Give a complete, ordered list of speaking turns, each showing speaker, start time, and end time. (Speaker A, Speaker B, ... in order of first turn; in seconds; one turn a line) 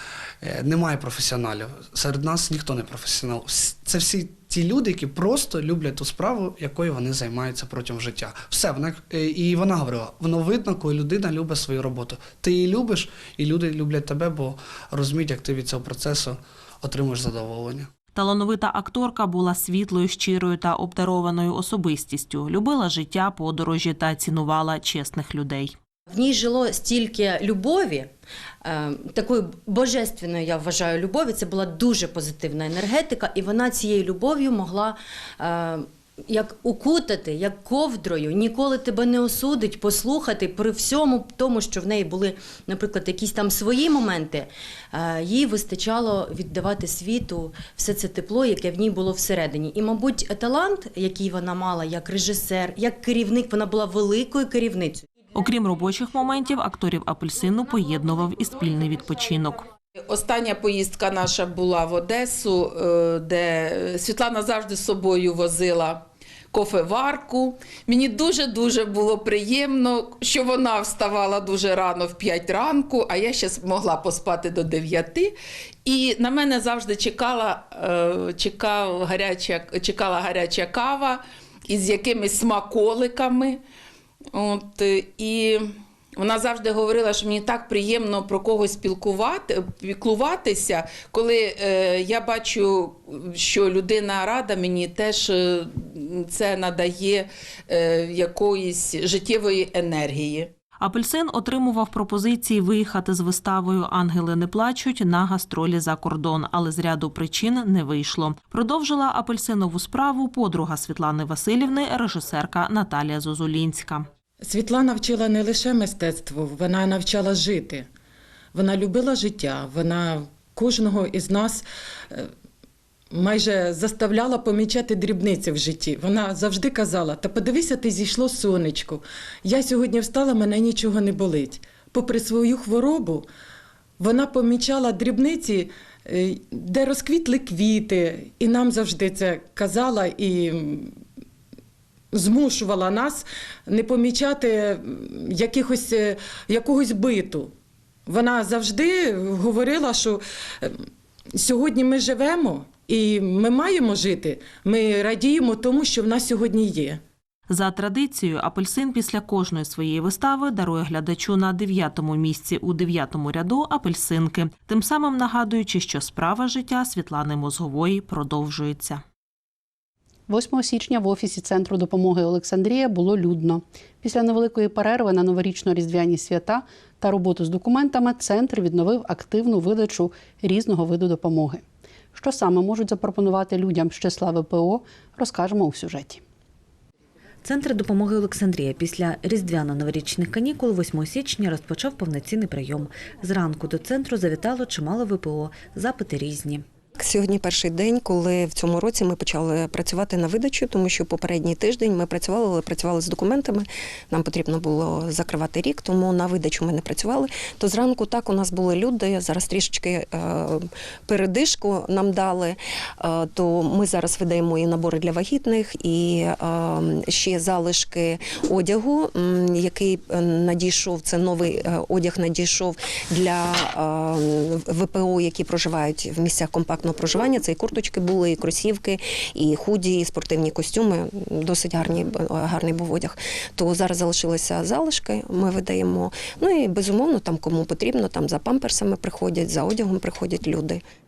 Speaker A: 0.4-17.9
Speaker B: 18.1-25.8
Speaker C: 26.1-28.1
Speaker C: 28.6-55.1
Speaker B: 55.3-59.6
Speaker D: 60.0-83.6
Speaker D: 84.3-100.5
Speaker B: 100.8-114.1
Speaker E: 114.4-117.9
Speaker E: 118.5-122.3
Speaker E: 123.1-133.3
Speaker E: 134.0-140.9
Speaker E: 142.1-147.5
Speaker E: 148.1-150.7
Speaker E: 151.4-157.0
Speaker B: 157.5-169.0
Speaker F: 170.3-181.6
Speaker F: 182.1-186.2
Speaker G: 187.5-196.5
Speaker H: 197.0-240.8